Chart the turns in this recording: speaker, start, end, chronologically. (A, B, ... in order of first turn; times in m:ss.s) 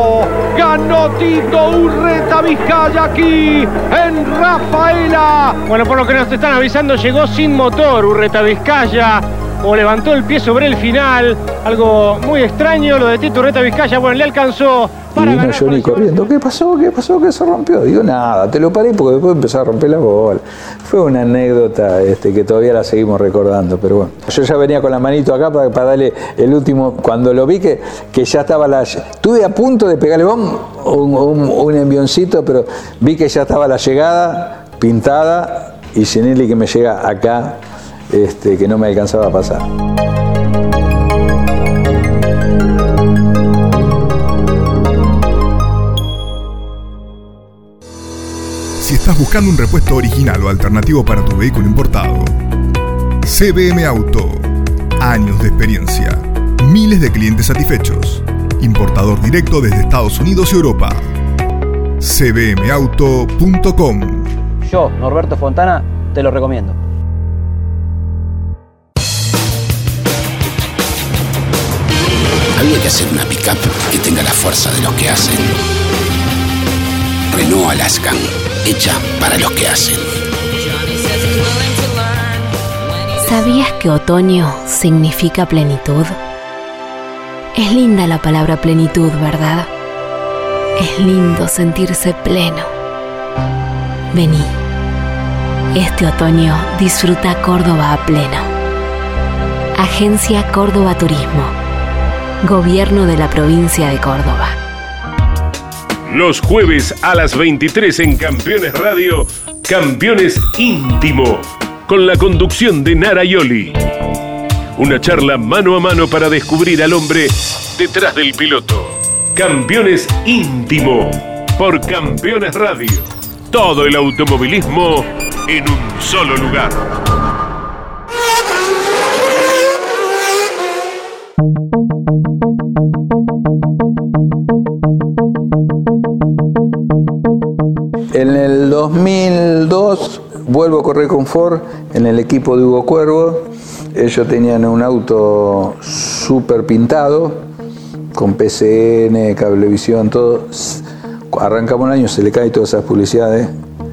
0:00.6-0:05.5 A
0:03.7-0:03.9 B
0:05.6-0:16.1 B
0:15.1-0:39.7 C
0:48.8-0:52.3 D
0:53.2-0:54.5 D
0:55.0-1:01.0 D
1:02.0-1:04.3 D
1:04.6-1:06.8 E
1:12.6-1:15.6 F
1:17.3-1:20.1 F
1:23.2-1:26.2 G
1:27.6-1:29.7 G
1:30.8-1:32.7 G
1:34.1-1:34.5 G
1:35.7-1:38.5 G
1:39.8-1:41.5 G
1:42.4-1:44.5 G
1:46.1-1:53.8 H
1:54.8-2:06.9 H
2:18.1-2:27.4 C
2:28.1-2:33.5 C